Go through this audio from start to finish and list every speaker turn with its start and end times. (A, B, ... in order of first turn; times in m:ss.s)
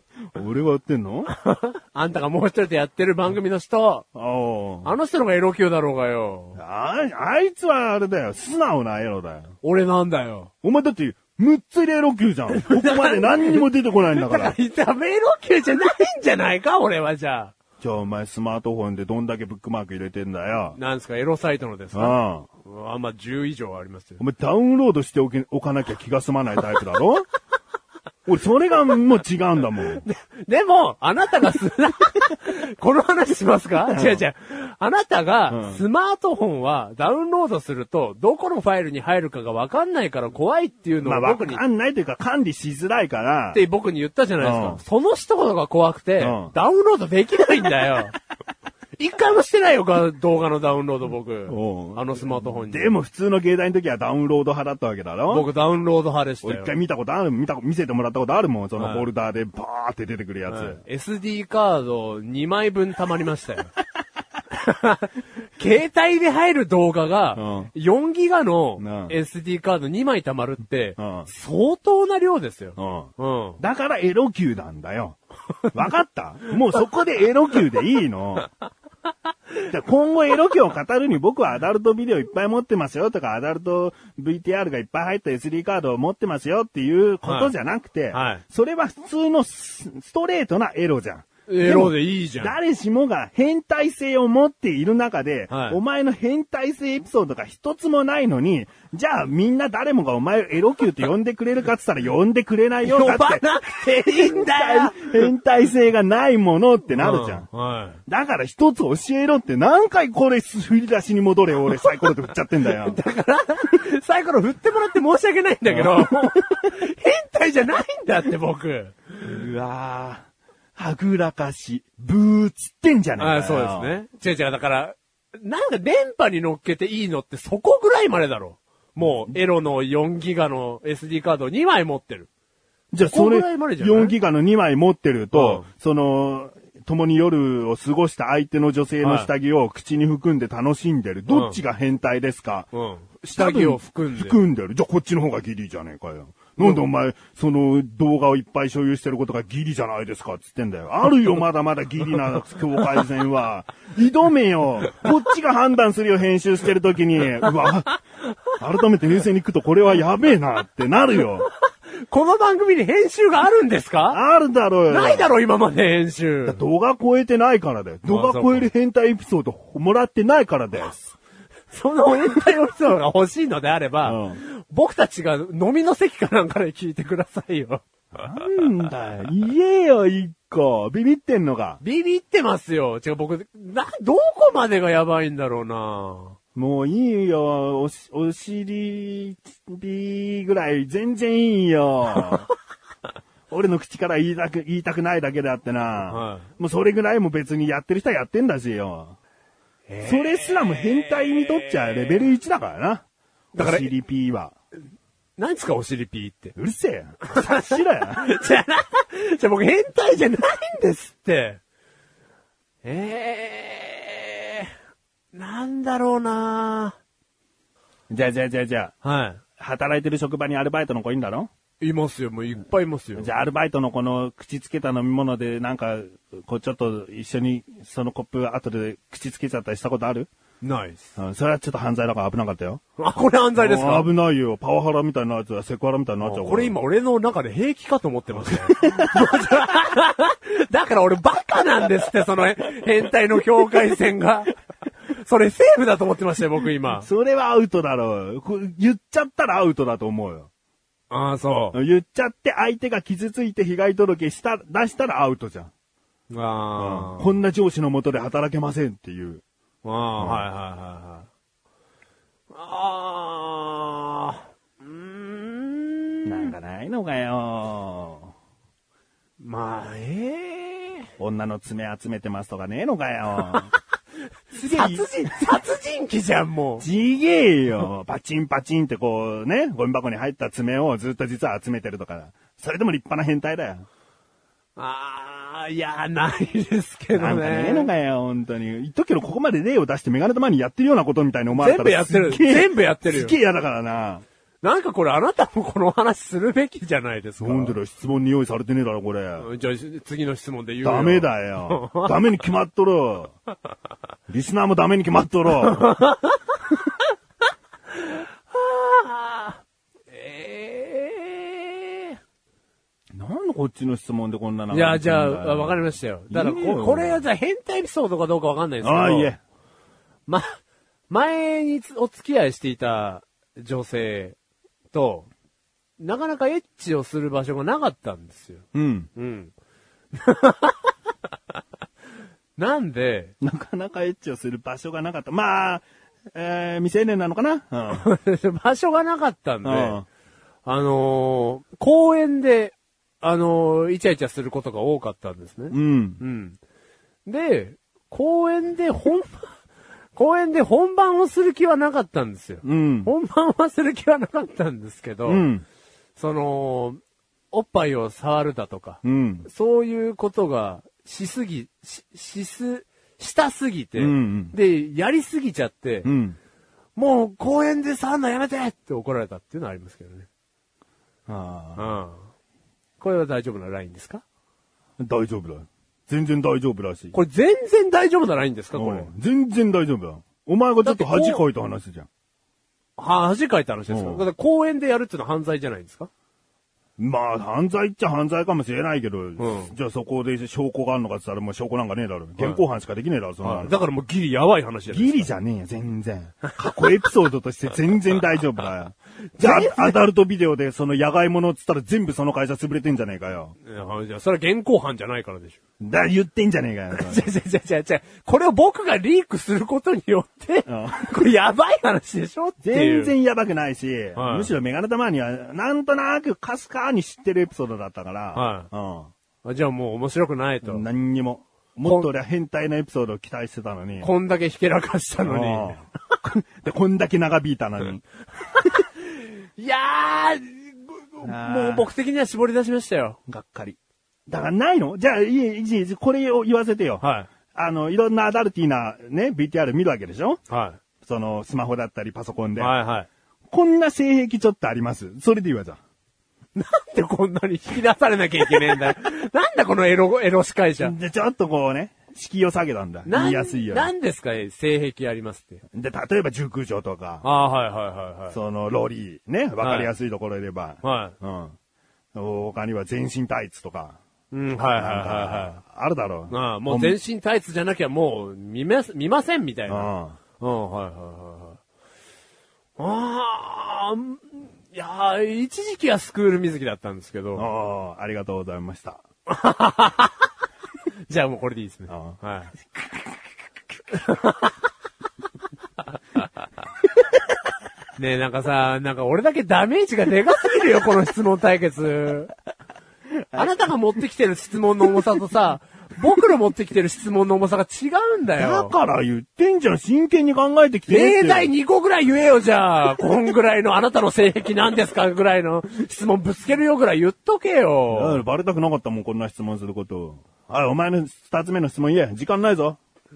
0:00.3-0:01.3 A
0:01.3-0:04.0 B
0:04.1-0:04.9 A
0:04.8-0:06.6 B
0:06.6-0:09.5 A
0:09.6-0:10.5 B
0:10.6-0:14.5 A
0:12.5-0:17.5 B
0:17.8-0:20.8 A
0:20.8-0:24.2 B
0:21.9-0:22.5 A
0:24.2-0:27.2 A
0:28.2-0:30.0 A
0:30.0-0:41.6 B
0:33.9-0:34.2 A
0:35.5-0:35.8 A
0:41.0-0:43.6 A
0:43.5-0:48.1 B
0:44.4-0:44.8 A
0:46.2-0:46.5 A
0:49.0-0:53.0 B
0:51.5-0:52.0 A
0:52.7-0:55.5 A
0:55.3-0:56.7 B
0:56.4-1:00.8 A
0:58.8-0:59.0 B
1:00.5-1:03.7 B
1:04.5-1:13.6 B
1:07.4-1:07.7 A
1:08.8-1:09.2 A
1:11.0-1:11.3 A
1:12.8-1:15.2 A
1:15.7-1:18.5 A
1:19.6-1:43.4 A
1:27.2-1:27.5 B
1:28.1-1:28.4 B
1:31.5-1:32.5 B
1:35.5-1:35.8 B
1:42.8-1:45.3 B
1:44.2-1:47.5 A
1:47.0-1:48.0 B
1:48.1-1:53.0 A
1:52.7-1:59.1 B
1:55.7-1:56.4 A
1:59.2-2:03.9 A
2:03.2-2:12.3 B
2:09.0-2:09.4 A
2:12.9-2:22.7 A
2:13.0-2:14.1 B
2:15.3-2:15.7 B
2:19.0-2:19.3 B
2:21.3-2:21.6 B
2:22.7-2:24.4 B
2:23.3-2:38.0 A
2:38.5-2:41.5 A
2:42.0-2:44.2 B
2:44.1-2:45.3 A
2:44.9-2:46.6 B
2:46.4-2:51.2 A
2:48.1-2:48.7 B
2:51.7-2:57.8 B
2:54.0-2:54.4 A
2:58.1-3:01.8 A
3:01.8-3:06.4 B
3:06.5-3:12.5 A
3:13.5-3:19.2 A
3:16.1-3:16.5 B
3:19.9-3:22.2 B
3:20.0-3:23.0 A
3:23.5-3:23.9 B
3:23.6-3:24.5 A
3:25.4-3:26.5 B
3:26.6-3:28.3 A
3:27.3-3:31.6 B
3:32.8-3:34.7 B
3:35.3-3:37.0 B
3:38.1-3:38.9 A
3:39.0-3:39.4 B
3:39.6-3:41.5 A
3:41.8-3:43.3 B
3:43.2-3:50.3 A
3:50.6-3:51.1 B
3:51.2-3:52.8 A
3:53.0-3:54.1 B
3:53.6-3:56.7 A
3:56.2-4:04.6 B
3:58.7-3:59.5 A
4:05.1-4:07.1 B
4:07.0-4:10.5 A
4:11.1-4:11.8 B
4:11.7-4:15.7 A
4:16.3-4:17.3 B
4:16.8-4:19.4 A
4:19.8-4:21.3 B
4:20.2-4:20.4 A
4:22.5-4:26.5 B
4:26.2-4:28.3 A
4:29.4-4:31.1 B
4:31.2-4:33.7 A
4:34.5-4:36.8 B
4:34.5-4:35.1 A
4:36.8-4:43.8 A
4:44.8-4:47.9 B
4:47.1-4:54.2 A
4:51.5-4:53.3 B
4:54.6-4:57.8 B
4:57.4-4:59.5 A
4:59.4-5:02.1 B
5:00.8-5:03.3 A
5:04.3-5:05.9 A
5:05.7-5:06.4 B
5:08.0-5:12.2 B
5:13.1-5:17.2 A
5:14.7-5:19.3 B
5:18.8-5:19.4 A
5:20.3-5:20.6 B
5:21.1-5:24.4 B
5:24.9-5:25.3 B
5:26.0-5:29.5 B
5:28.7-5:29.1 A
5:30.1-5:30.9 B
5:32.6-5:33.3 B
5:33.4-5:38.0 A
5:37.9-5:40.0 B
5:39.6-5:40.0 A
5:40.6-5:46.6 B
5:45.7-5:46.2 A
5:47.2-5:49.6 B
5:50.1-5:55.4 B
5:52.6-5:53.1 A
5:55.3-5:55.6 A
5:56.2-5:57.0 B
5:57.5-6:06.1 B
5:59.0-5:59.5 A
6:04.0-6:04.5 A
6:06.0-6:06.4 A
6:07.0-6:10.3 B
6:11.3-6:11.9 A
6:11.8-6:12.2 B
6:13.0-6:14.2 B
6:15.0-6:17.1 A
6:17.1-6:19.1 B
6:18.7-6:22.1 A
6:20.8-6:21.4 B
6:23.0-6:26.1 B
6:23.9-6:24.2 A
6:27.0-6:33.7 A
6:29.4-6:29.7 B
6:33.4-6:35.3 B
6:34.9-6:43.6 A
6:39.4-6:40.0 B
6:43.6-6:45.6 B
6:45.8-6:47.2 A
6:46.9-6:53.1 B
6:50.6-6:51.1 A
6:52.6-6:59.1 A
6:54.2-6:54.5 B
6:58.3-6:58.7 B
6:59.4-7:00.8 B
7:00.6-7:04.1 A
7:04.0-7:05.8 B
7:05.2-7:08.0 A
7:08.6-7:13.2 B
7:11.2-7:11.9 A
7:13.3-7:20.4 A
7:17.0-7:17.3 B
7:20.5-7:20.8 B
7:21.0-7:22.8 A
7:22.6-7:23.1 B
7:23.5-7:25.8 A
7:26.5-7:30.9 B
7:30.8-7:33.9 A
7:33.0-7:35.6 B
7:35.7-7:37.2 A
7:37.2-7:38.4 B
7:38.3-7:41.5 A
7:39.6-7:39.9 B
7:40.8-7:41.1 B
7:42.1-7:44.0 A
7:44.3-7:45.6 B
7:44.7-7:47.0 A
7:46.3-7:51.6 B
7:49.7-7:50.2 A
7:52.8-7:57.5 B
7:57.4-7:59.0 A
7:59.3-8:00.2 B
8:01.1-8:02.5 B
8:01.9-8:02.2 A
8:03.9-8:04.5 B
8:08.0-8:12.3 B
8:13.3-8:18.7 B
8:18.4-8:21.5 A
8:20.9-8:28.2 B
8:27.9-8:32.8 A